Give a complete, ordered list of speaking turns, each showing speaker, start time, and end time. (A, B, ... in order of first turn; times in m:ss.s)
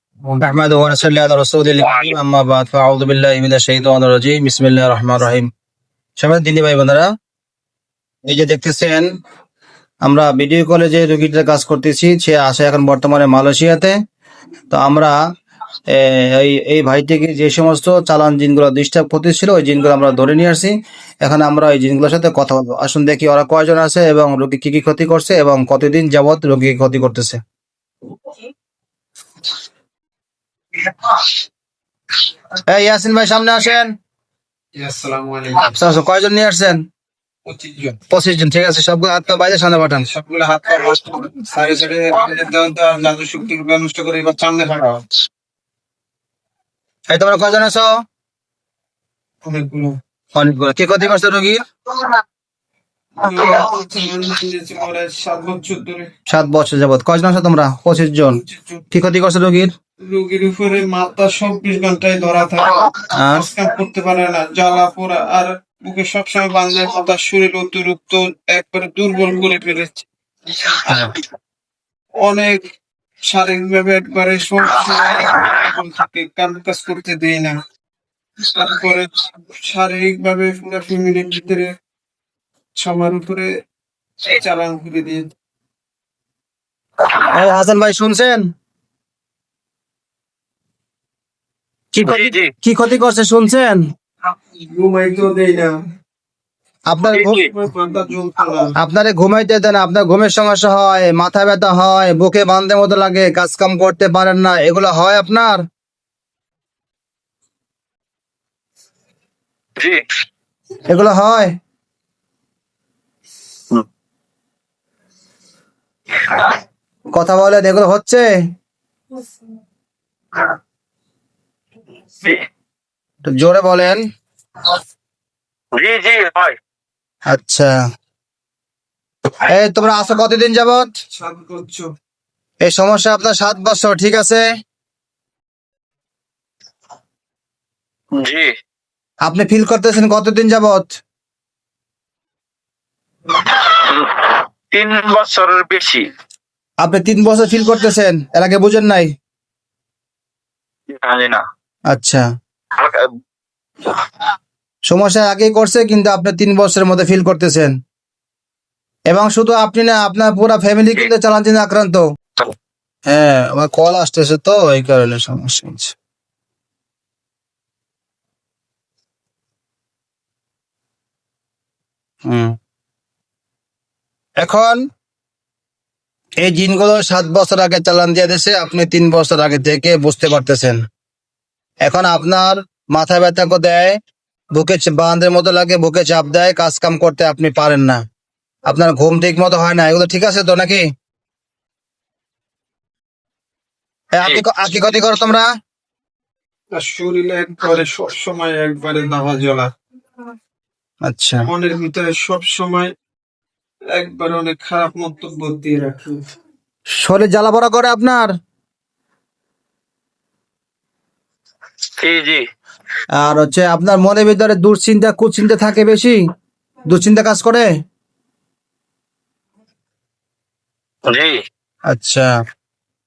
0:00.4-0:05.5 A
0:06.2-0:07.1 A
0:08.2-0:09.1 A
0:10.0-0:14.0 A
0:14.7-0:15.2 A
0:15.9-0:27.4 A
0:32.7-0:33.9 A
0:34.8-0:35.7 B
0:35.6-0:36.8 A
0:37.4-0:38.0 B
0:38.1-0:40.1 A
0:40.1-0:45.0 B
0:47.1-0:47.9 A
0:49.4-0:50.0 B
0:50.3-0:51.6 A
0:53.2-0:56.1 B
0:56.3-0:59.7 A
0:58.5-0:58.8 B
1:00.0-1:10.0 B
1:03.1-1:03.4 A
1:12.2-1:12.6 B
1:13.3-1:17.6 B
1:18.4-1:21.7 B
1:22.8-1:23.5 B
1:24.2-1:25.3 B
1:27.2-1:28.5 A
1:31.9-1:33.8 A
1:32.0-1:32.5 C
1:34.7-1:35.7 B
1:36.9-1:37.4 A
1:37.1-1:37.5 C
1:37.4-1:38.7 B
1:38.8-1:45.6 A
1:50.9-1:51.5 A
1:57.1-1:58.3 A
2:03.2-2:04.0 A
2:05.7-2:06.6 C
2:07.3-2:07.7 A
2:09.4-2:10.9 A
2:11.1-2:11.9 B
2:12.6-2:14.4 A
2:18.2-2:18.5 C
2:19.2-2:20.9 A
2:23.3-2:26.0 C
2:26.8-2:29.1 A
2:30.9-2:31.4 C
2:31.9-2:32.2 A
2:32.8-2:33.1 C
2:34.9-2:37.7 A
2:39.1-2:42.0 A
2:43.0-2:45.9 A
2:52.2-2:52.6 A
2:54.4-2:54.8 A
2:56.4-3:00.8 A
3:01.8-3:04.0 A
3:04.5-3:08.0 A
3:08.7-3:10.9 A
3:14.1-3:15.5 A
3:16.7-3:19.7 B
3:21.0-3:21.5 A
3:21.5-3:22.9 B
3:23.9-3:26.2 B
3:27.0-3:28.3 A
3:32.0-3:32.4 C
3:33.2-3:36.2 A
3:36.9-3:37.7 A
3:41.1-3:41.4 C
3:41.9-3:42.3 A